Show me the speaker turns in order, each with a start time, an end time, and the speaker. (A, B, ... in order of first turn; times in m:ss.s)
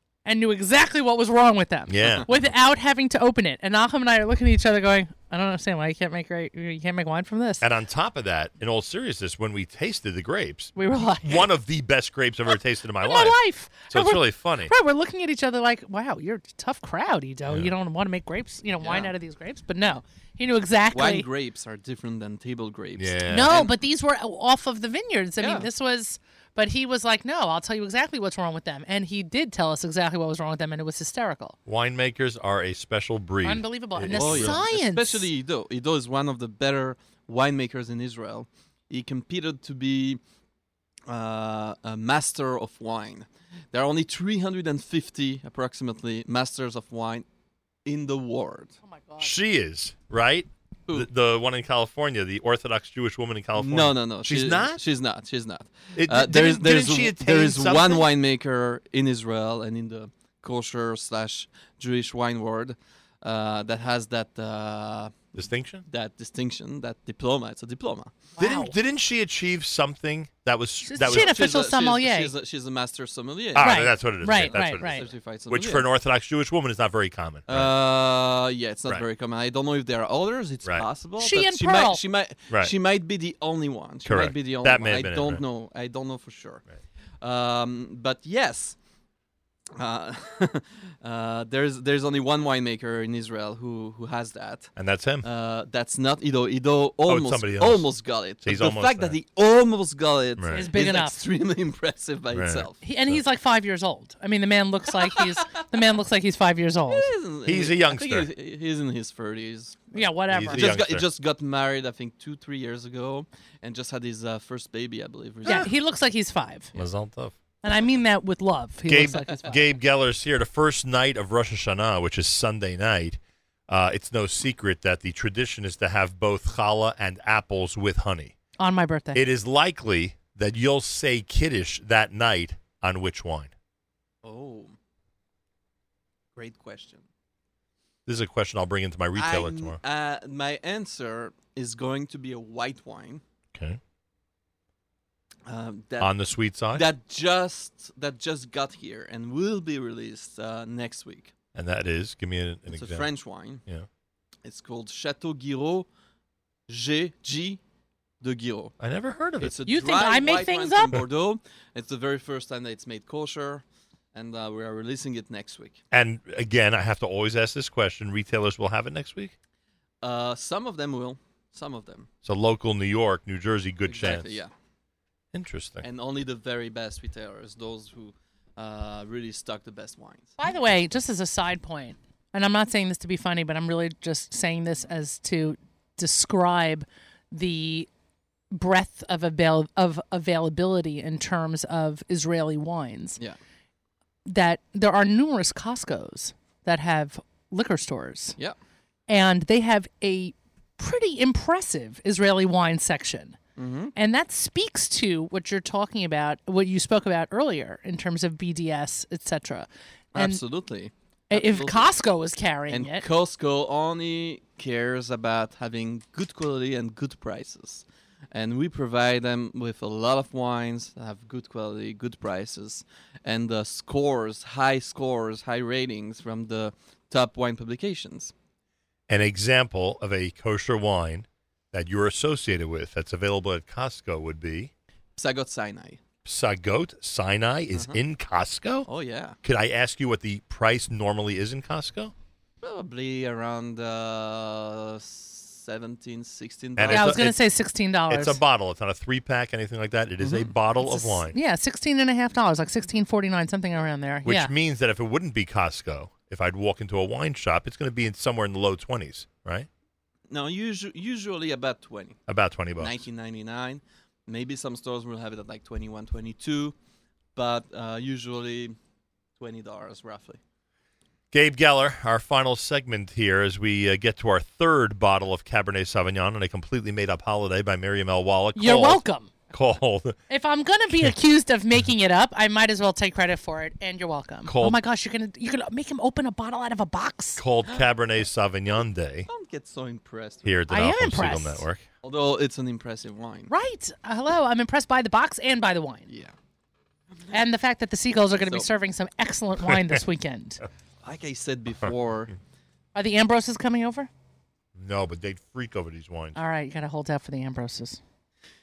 0:00.2-0:07.7 A
0:01.9-0:02.3 B
0:07.6-0:13.4 B
0:10.8-0:11.5 A
0:13.0-0:21.3 A
0:13.9-0:14.7 B
0:17.4-0:17.7 B
0:18.8-0:19.1 C
0:20.9-0:23.7 C
0:23.0-0:23.6 B
0:23.3-0:31.6 A
0:25.4-0:25.7 C
0:31.7-0:34.6 B
0:33.4-0:35.3 A
0:34.1-0:40.2 C
0:41.1-0:47.2 C
0:47.8-0:48.8 C
0:48.8-0:49.3 A
0:49.2-0:54.8 B
0:53.6-1:05.3 C
0:56.0-0:58.1 B
1:05.4-1:05.8 B
1:05.8-1:08.2 C
1:08.4-1:08.8 A
1:08.4-1:11.4 B
1:10.8-1:12.3 A
1:11.0-1:15.8 C
1:13.5-1:17.7 B
1:13.6-1:15.0 A
1:17.5-1:26.6 C
1:21.2-1:22.0 A
1:24.0-1:25.4 B
1:27.2-1:28.8 C
1:29.7-1:42.8 C
1:34.8-1:35.3 B
1:37.0-1:37.9 B
1:38.4-1:39.1 B
1:40.4-1:40.7 B
1:40.5-1:41.2 A
1:42.3-1:43.2 B
1:42.8-1:47.1 A
1:46.9-1:55.7 C
1:47.4-1:48.3 B
1:49.9-1:50.8 A
1:50.3-1:51.0 B
1:55.4-1:56.7 A
1:56.7-1:57.3 B
1:57.6-1:59.6 A
1:58.9-2:08.3 B
2:08.6-2:09.2 A
2:09.1-2:13.5 B
2:14.2-2:14.8 C
2:16.4-2:17.0 C
2:18.0-2:19.8 B
2:19.2-2:23.2 C
2:23.5-2:23.8 B
2:25.5-2:26.2 C
2:26.0-2:26.8 B
2:26.7-2:31.3 C
2:31.5-2:33.1 B
2:32.7-2:33.6 C
2:34.4-2:35.9 C
2:36.7-2:37.6 C
2:38.2-2:38.7 C
2:38.8-2:39.6 B
2:39.4-2:45.8 C
2:39.6-2:41.0 A
2:45.9-2:49.3 B
2:50.0-2:52.1 C
2:52.2-2:54.4 B
2:53.9-2:54.5 C
2:55.3-2:55.8 B
2:55.8-3:00.4 C
3:00.4-3:07.9 A
3:08.5-3:13.2 A
3:14.2-3:18.4 A
3:19.1-3:23.4 A
3:23.6-3:23.9 C
3:24.0-3:30.4 A
3:30.1-3:31.9 C
3:31.3-3:33.0 A
3:32.7-3:48.3 C
3:49.1-3:54.7 B
3:55.2-3:56.0 C
3:56.2-3:58.9 B
3:57.7-3:58.0 C
3:58.9-3:59.4 C
3:59.4-4:02.1 B
4:02.6-4:07.2 C
4:06.8-4:07.4 B
4:06.9-4:08.4 A
4:08.1-4:11.3 B
4:10.2-4:10.5 C
4:10.8-4:14.5 A
4:14.2-4:19.7 B
4:20.3-4:22.2 C
4:22.3-4:23.0 B
4:22.8-4:26.7 C
4:27.3-4:28.8 C
4:29.4-4:30.4 C
4:31.3-4:40.2 B
4:38.6-4:39.3 A
4:40.3-4:47.4 A
4:44.4-4:44.8 B
4:47.4-4:49.3 B
4:49.3-4:50.5 C
4:50.4-4:51.8 B
4:50.7-4:51.6 A
4:52.0-4:53.5 C
4:53.5-4:56.1 A
4:56.1-4:56.3 C
4:57.3-5:00.6 A
4:58.4-4:58.7 C
5:01.0-5:02.3 C
5:02.9-5:04.1 A
5:04.7-5:06.4 B
5:06.3-5:08.0 A